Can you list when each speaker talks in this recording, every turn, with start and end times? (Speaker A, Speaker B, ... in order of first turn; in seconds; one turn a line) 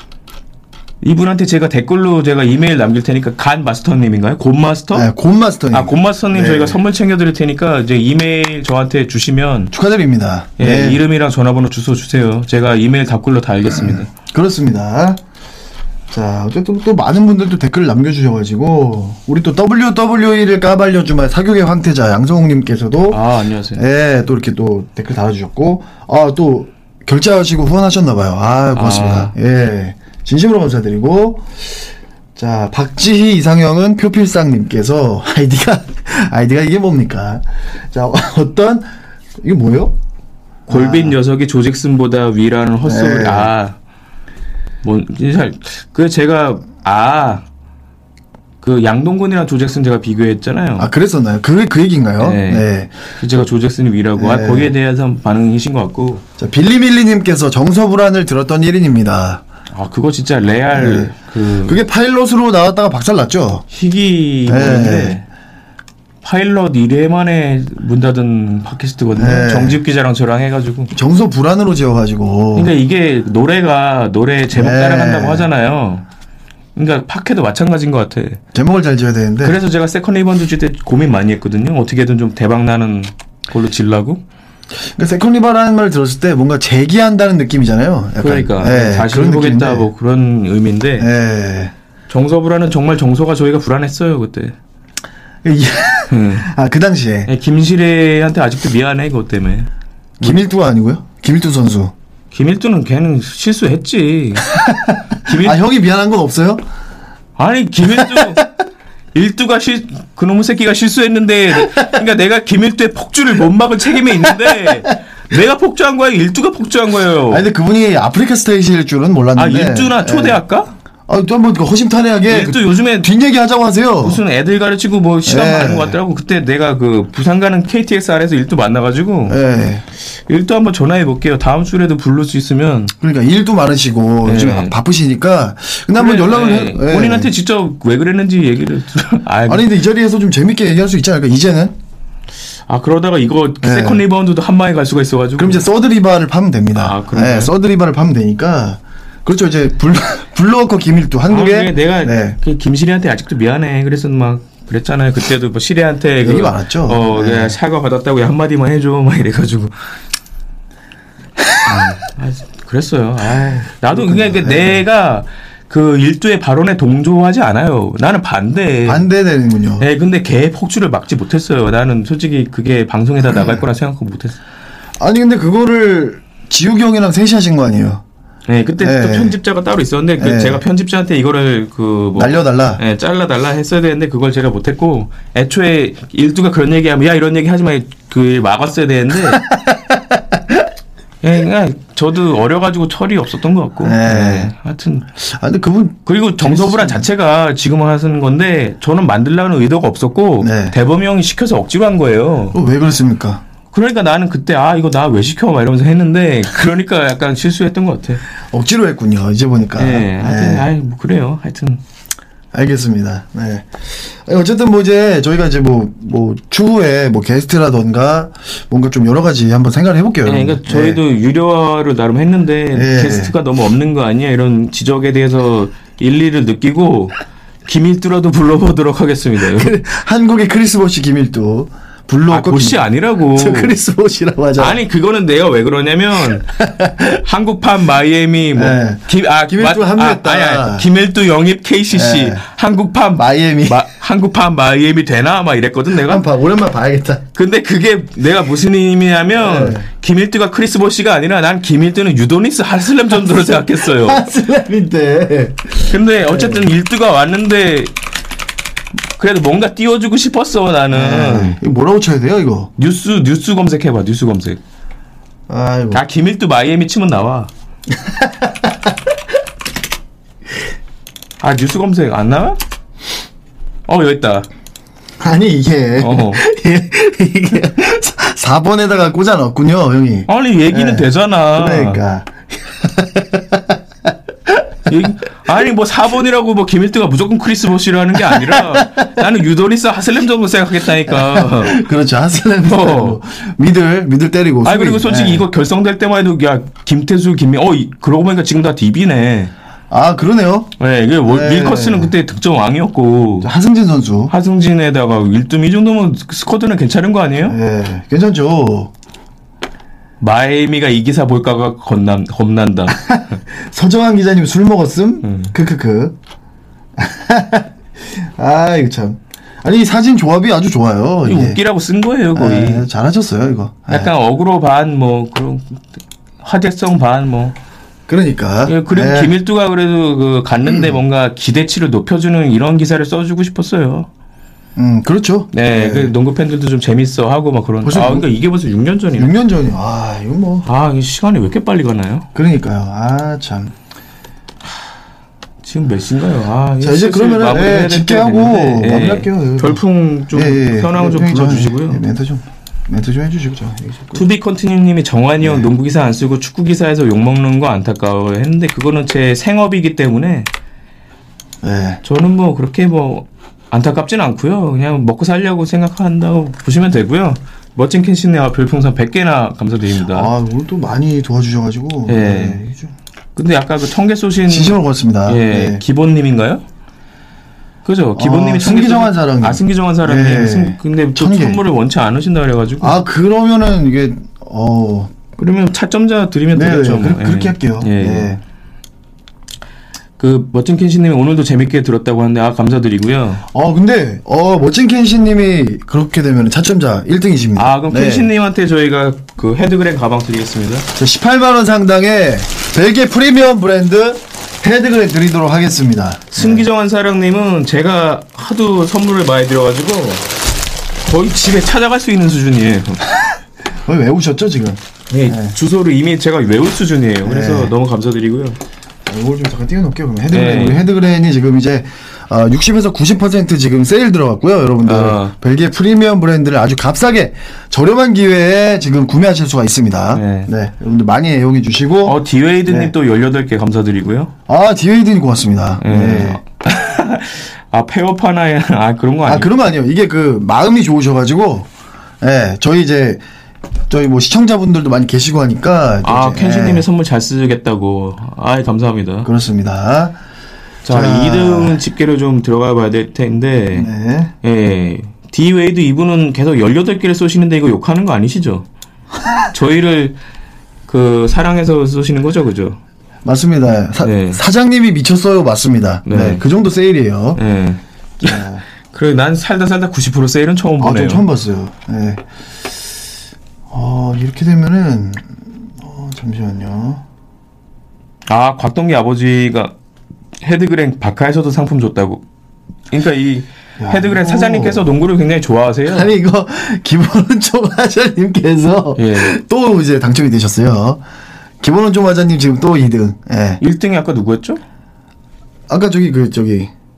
Speaker A: 1.0-5.1
Speaker B: 4.9-6.8
Speaker A: 5.7-9.7
Speaker B: 9.7-11.0
Speaker A: 10.6-14.1
Speaker B: 13.8-15.2
Speaker B: 16.1-23.2
Speaker A: 23.1-23.8
Speaker B: 23.7-31.7
Speaker A: 28.7-29.3
Speaker B: 32.4-38.9
Speaker B: 39.4-40.0
Speaker B: 40.7-41.2
Speaker A: 40.7-43.8
Speaker B: 42.8-43.5
Speaker A: 44.8-47.4
Speaker A: 48.6-50.9
Speaker B: 50.8-53.0
Speaker A: 52.2-52.6
Speaker A: 53.2-56.2
Speaker B: 54.2-54.7
Speaker B: 56.4-59.4
Speaker A: 59.7-61.8
Speaker B: 60.7-63.6
Speaker A: 63.7-65.2
Speaker B: 64.5-65.2
Speaker A: 66.2-70.9
Speaker B: 69.2-69.8
Speaker B: 70.9-72.7
Speaker A: 72.5-76.0
Speaker B: 74.5-75.5
Speaker A: 76.8-78.4
Speaker B: 78.5-79.6
Speaker A: 79.4-84.2
Speaker B: 84.9-89.9
Speaker A: 88.2-91.1
Speaker B: 91.0-91.7
Speaker A: 92.1-94.5
Speaker B: 95.4-97.3
Speaker A: 96.1-96.5
Speaker A: 97.3-99.7
Speaker B: 100.2-101.9
Speaker A: 102.3-104.6
Speaker B: 104.5-106.6
Speaker A: 105.2-105.6
Speaker A: 107.4-108.5
Speaker B: 107.9-108.5
Speaker A: 109.1-117.5
Speaker B: 114.2-114.7
Speaker B: 117.3-120.4
Speaker A: 119.3-120.7
Speaker B: 121.1-124.2
Speaker A: 122.3-123.1
Speaker A: 124.0-129.4
Speaker B: 125.2-126.0
Speaker B: 129.3-129.8
Speaker A: 130.1-132.9
Speaker B: 133.0-137.3
Speaker A: 134.2-134.7
Speaker A: 135.9-139.7
Speaker B: 139.5-141.7
Speaker A: 142.7-145.6
Speaker B: 143.6-144.0
Speaker B: 145.4-152.4
Speaker A: 146.8-147.5
Speaker A: 151.3-159.7
Speaker B: 156.2-157.6
Speaker A: 161.7-169.0
Speaker B: 163.9-164.8
Speaker B: 168.8-169.8
Speaker A: 169.8-174.4
Speaker B: 175.0-178.0
Speaker A: 178.5-189.4
Speaker B: 178.8-179.3
Speaker B: 180.2-180.6
Speaker B: 182.2-182.8
Speaker B: 189.3-190.6
Speaker A: 191.2-195.1
Speaker B: 193.8-194.5
Speaker B: 195.2-197.1
Speaker A: 196.1-202.6
Speaker B: 200.4-200.7
Speaker B: 202.5-203.4
Speaker A: 203.7-208.2
Speaker B: 208.5-210.7
Speaker A: 209.8-211.8
Speaker B: 212.5-221.0
Speaker A: 220.2-229.7
Speaker B: 222.7-223.3
Speaker B: 229.5-232.8
Speaker A: 232.3-233.8
Speaker B: 233.3-234.8
Speaker A: 234.6-236.5
Speaker B: 236.6-237.2
Speaker A: 237.2-246.2
Speaker B: 238.5-240.8
Speaker B: 241.9-242.4
Speaker B: 243.2-243.8
Speaker B: 246.0-247.2
Speaker A: 247.3-254.2
Speaker B: 249.4-249.8
Speaker B: 253.3-256.7
Speaker A: 255.9-257.9
Speaker A: 259.2-261.6
Speaker B: 260.9-262.7
Speaker A: 262.8-264.6
Speaker B: 265.5-266.0
Speaker A: 265.9-267.5
Speaker B: 268.0-268.9
Speaker A: 271.4-272.6
Speaker A: 273.9-274.5
Speaker B: 275.2-284.6
Speaker A: 276.0-276.4
Speaker A: 280.3-282.0
Speaker A: 284.9-291.8
Speaker B: 288.3-288.8
Speaker B: 291.1-295.4
Speaker A: 292.6-293.2
Speaker A: 294.6-299.5
Speaker B: 299.9-300.7
Speaker A: 300.8-303.5
Speaker B: 301.3-302.1
Speaker B: 303.4-304.3
Speaker A: 304.3-307.6
Speaker B: 307.5-308.9
Speaker A: 310.2-313.0
Speaker B: 312.9-316.1
Speaker A: 315.2-315.5
Speaker B: 317.0-321.6
Speaker A: 321.2-322.9
Speaker B: 322.3-324.1
Speaker A: 323.9-327.6
Speaker B: 328.1-329.3
Speaker A: 328.6-334.1
Speaker B: 330.7-330.9
Speaker B: 334.8-336.1
Speaker A: 335.5-339.3
Speaker B: 337.8-338.2
Speaker B: 339.1-340.7
Speaker A: 340.6-342.3
Speaker B: 342.3-343.7
Speaker A: 345.6-352.0
Speaker B: 346.8-354.2
Speaker A: 354.1-360.5
Speaker B: 355.4-355.7
Speaker B: 361.6-362.0
Speaker A: 362.0-370.3
Speaker B: 370.1-372.9
Speaker A: 372.1-372.6
Speaker A: 373.3-376.6
Speaker B: 374.5-375.8
Speaker A: 377.8-383.0
Speaker B: 378.1-381.6
Speaker B: 382.8-385.1
Speaker A: 385.4-388.3
Speaker B: 386.5-388.4
Speaker A: 390.2-393.4
Speaker B: 393.5-398.3
Speaker A: 397.6-400.9
Speaker B: 400.9-406.6
Speaker A: 406.3-410.3
Speaker A: 411.0-413.0
Speaker B: 413.8-415.5
Speaker A: 415.1-418.6
Speaker B: 417.2-417.7
Speaker B: 419.1-432.9
Speaker A: 420.3-420.8
Speaker A: 424.8-425.3
Speaker A: 430.1-430.5
Speaker A: 432.0-434.3
Speaker B: 434.5-436.4
Speaker A: 435.8-439.5
Speaker B: 439.2-441.7
Speaker B: 442.2-443.2
Speaker B: 443.9-446.8
Speaker A: 446.0-449.3
Speaker B: 449.2-450.2
Speaker A: 450.8-453.9
Speaker B: 450.9-451.8
Speaker B: 453.7-454.3
Speaker A: 454.4-458.6
Speaker A: 459.5-460.2
Speaker A: 460.9-462.8
Speaker B: 463.2-467.4
Speaker A: 464.0-464.4
Speaker A: 466.1-466.4
Speaker A: 467.4-471.2
Speaker B: 468.2-468.6
Speaker B: 470.8-472.3
Speaker B: 473.7-477.0
Speaker A: 478.3-479.7
Speaker A: 480.4-482.2
Speaker A: 482.9-486.1
Speaker B: 483.8-484.9
Speaker B: 485.9-491.0
Speaker A: 489.0-489.4
Speaker B: 491.6-493.6
Speaker A: 493.6-494.6
Speaker B: 495.7-496.7